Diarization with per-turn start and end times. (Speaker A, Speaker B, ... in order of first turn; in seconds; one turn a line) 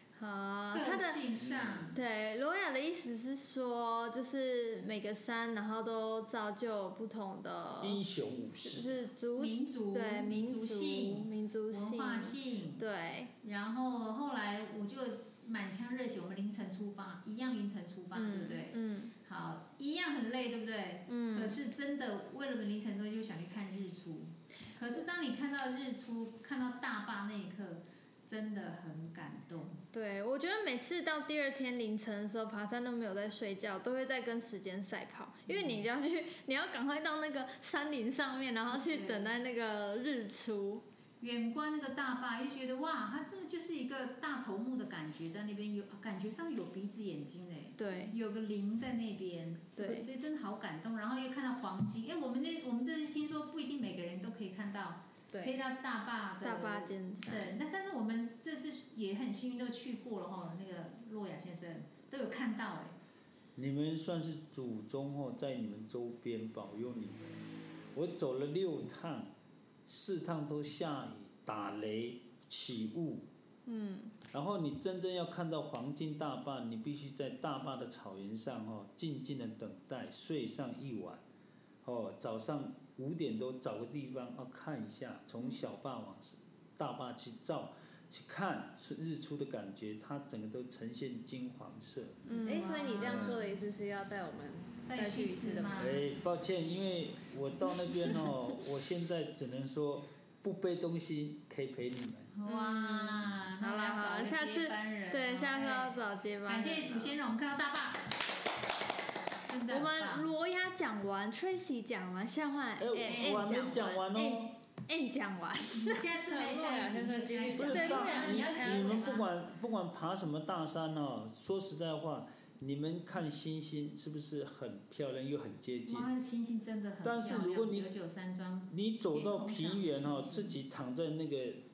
Speaker A: 0.1-1.2
Speaker B: 0.7-2.0
Speaker C: 1.4-1.9
Speaker A: 1.9-8.0
Speaker C: 7.8-8.9
Speaker A: 8.6-13.3
Speaker B: 9.3-12.8
Speaker B: 13.4-29.8
Speaker A: 18.1-19.1
Speaker A: 21.1-21.6
Speaker A: 29.9-40.8
Speaker B: 35.5-35.9
Speaker B: 38.7-39.3
Speaker B: 41.2-63.0
Speaker A: 47.8-48.1
Speaker A: 49.8-50.0
Speaker A: 56.4-57.5
Speaker C: 63.5-67.4
Speaker C: 67.9-69.3
Speaker C: 69.8-73.2
Speaker A: 73.7-74.1
Speaker C: 74.3-81.2
Speaker C: 81.8-92.2
Speaker A: 92.2-92.8
Speaker B: 92.3-93.4
Speaker D: 92.4-96.0
Speaker C: 93.0-93.5
Speaker B: 94.8-96.0
Speaker C: 95.8-102.3
Speaker B: 102.3-108.1
Speaker A: 102.5-107.2
Speaker B: 109.5-110.3
Speaker A: 109.7-116.0
Speaker C: 112.8-114.5
Speaker B: 113.1-113.5
Speaker B: 115.8-119.3
Speaker D: 116.3-119.2
Speaker C: 117.5-126.1
Speaker B: 125.9-130.5
Speaker C: 127.0-127.9
Speaker C: 128.7-131.6